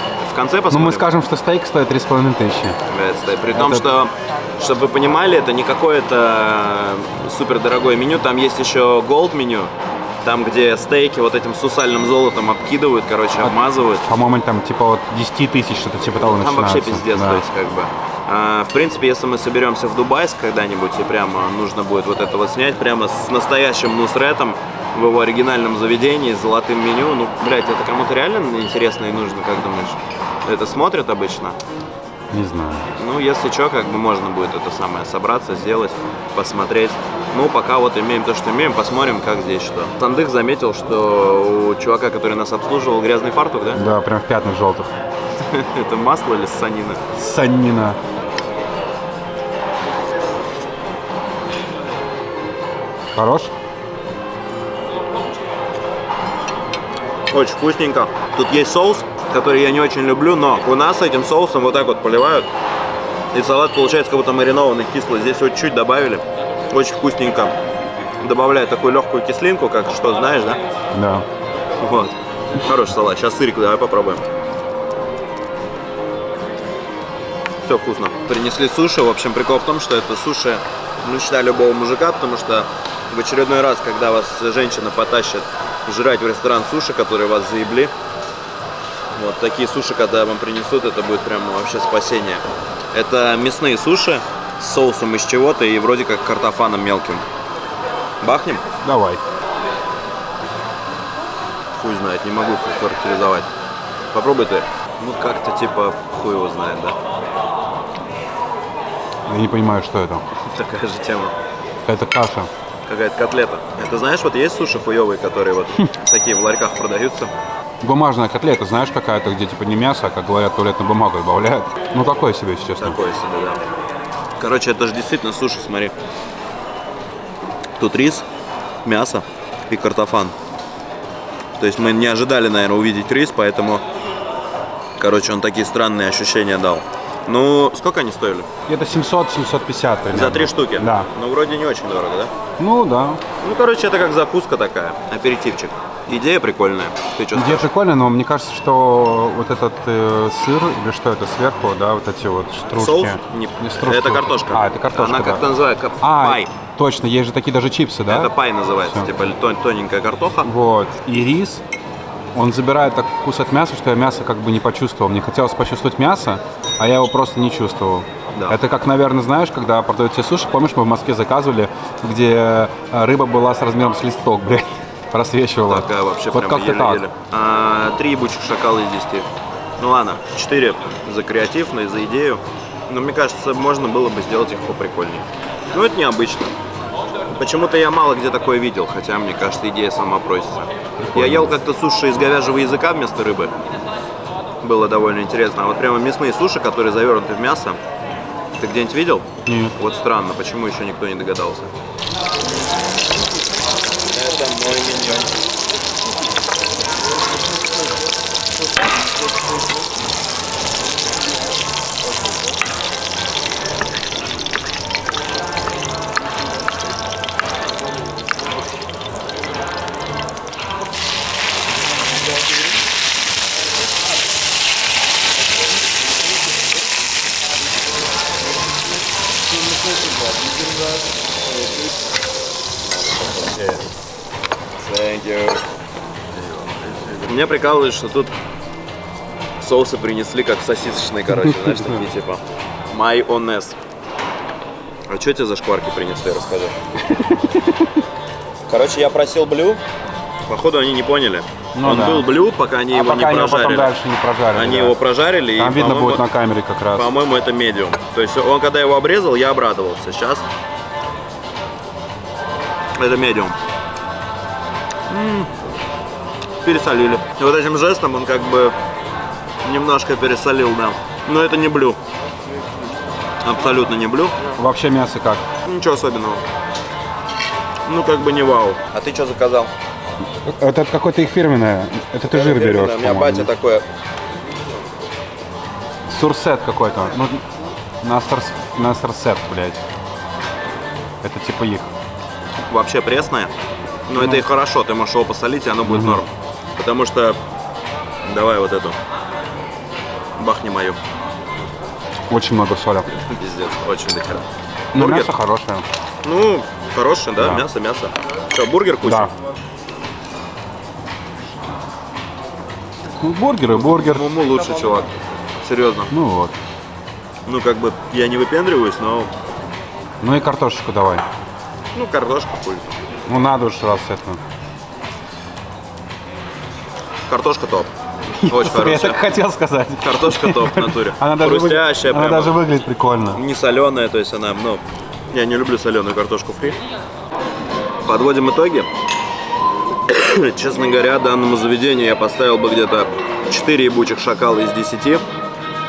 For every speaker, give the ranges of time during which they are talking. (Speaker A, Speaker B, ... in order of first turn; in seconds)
Speaker A: 0.2-1.1, 2.9-14.1, 16.2-31.6, 33.0-43.8, 45.4-47.0, 57.3-62.5, 63.3-67.5, 68.2-70.6, 71.8-74.2, 77.6-87.9, 89.2-97.2, 98.2-98.6, 101.8-103.5, 104.1-107.0, 110.4-111.3, 112.9-117.3, 122.8-123.6, 124.4-126.0, 127.8-128.2, 128.8-130.3, 131.6-133.8, 135.0-138.5, 140.1-142.3, 143.4-147.7, 152.8-156.5, 158.1-160.5, 168.3-168.6, 175.7-186.5, 187.3-193.5, 194.6-197.8, 198.6-201.7, 204.1-205.3, 232.8-233.9, 234.8-235.6, 236.3-238.3, 239.6-243.8, 245.1-246.8, 248.7-249.8, 250.5-253.9, 254.5-256.2, 256.9-260.4, 263.0-263.6, 265.1-265.5, 266.6-268.8, 269.6-272.0, 273.4-274.4, 275.6-276.4, 277.9-279.7, 282.3-283.9, 292.6-293.5, 294.1-297.4, 298.2-299.0, 300.4-301.0, 303.1-305.3, 306.2-309.3, 313.7-316.1, 317.4-319.3, 321.9-323.0, 327.3-327.9, 328.4-329.2, 330.0-332.6, 333.3-336.8, 338.1-338.9, 340.1-345.2
Speaker B: 0.7-2.8, 3.5-3.9, 13.4-17.4, 32.3-32.9, 43.7-44.9, 47.1-48.0, 53.1-53.5, 70.9-71.2, 98.8-99.2, 109.2-110.2, 111.8-112.5, 117.8-123.0, 138.7-141.1, 142.6-143.2, 147.3-155.5, 156.0-158.3, 160.4-161.6, 162.3-177.0, 191.0-191.5, 199.4-199.7, 241.5-242.0, 247.1-247.9, 251.7-252.3, 252.9-255.0, 255.6-257.1, 274.6-275.4, 280.4-283.5, 286.1-287.4, 288.0-289.8, 291.2-291.9, 294.1-294.4, 295.8-296.2, 302.3-303.1, 304.9-305.9, 307.4-307.6, 309.0-309.3, 313.1-314.3, 316.1-316.6, 320.2-321.2, 323.3-324.4, 328.4-333.4